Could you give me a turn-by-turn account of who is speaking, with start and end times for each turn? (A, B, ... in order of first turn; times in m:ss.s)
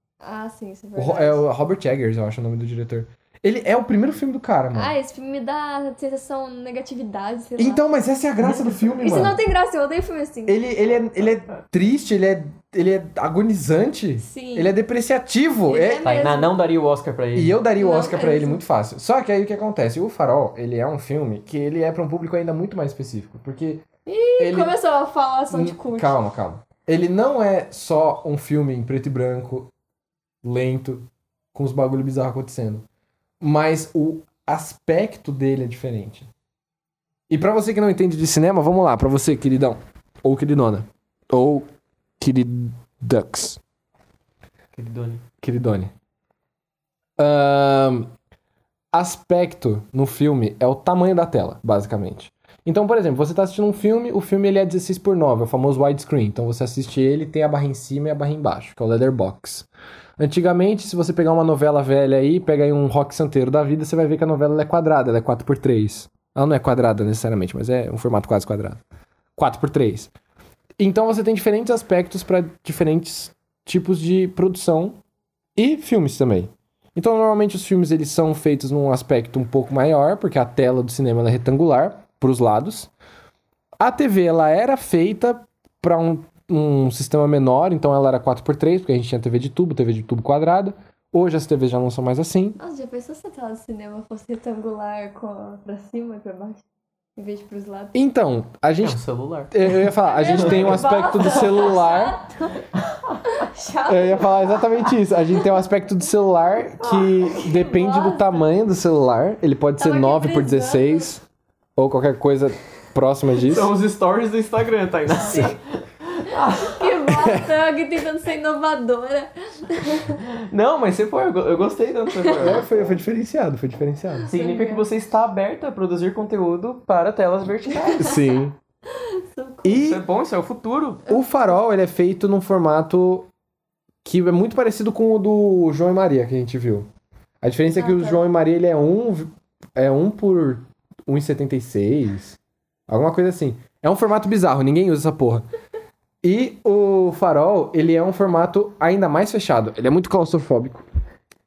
0:00.2-0:01.4 A
0:01.0-0:05.0 B
0:04.7-0:07.8 A
0:07.6-0:09.4 B
0:08.4-0:08.7 C
0:09.0-0:10.6 A
0:10.5-0:16.1 B
0:14.2-0:14.7 A
0:15.7-0:16.6 A
0:16.0-0:17.6 C
0:17.4-0:23.8 B
0:17.8-0:18.6 A
0:24.1-0:26.2 A
0:24.4-0:24.8 B
0:25.5-0:29.7 B
0:30.4-0:32.9 B
0:33.4-0:36.3 B
0:37.3-0:41.7 B
0:42.2-0:43.6 B
0:44.7-0:45.2 C
0:45.4-0:45.9 B
0:47.2-0:48.1 B
0:48.9-1:08.8 B
1:09.4-1:10.1 B
1:10.8-1:15.0 B
1:15.6-1:22.9 B
1:23.8-1:32.6 B
1:32.6-1:36.6 A
1:37.2-1:38.0 A
1:37.9-1:42.2 B
1:38.8-1:41.6 C
1:40.0-1:42.7 A
1:42.8-1:43.4 C
1:43.3-1:45.4 A
1:43.9-1:51.2 B
1:46.8-1:48.4 A
1:49.8-1:51.1 A
1:51.8-1:53.7 B
1:53.4-1:57.1 C
1:55.2-1:55.6 A
1:56.6-2:00.2 A
1:57.1-1:57.5 B
2:00.1-2:03.0 C
2:02.2-2:02.6 A
2:02.4-2:04.3 B
2:04.2-2:04.9 A
2:04.3-2:08.2 C
2:07.8-2:08.2 A
2:08.0-2:08.6 B
2:08.9-2:09.8 A
2:09.6-2:10.0 B
2:09.7-2:11.1 C
2:11.1-2:13.3 B
2:14.0-2:16.9 B
2:17.4-2:25.4 B
2:17.8-2:18.2 A
2:26.2-2:30.8 B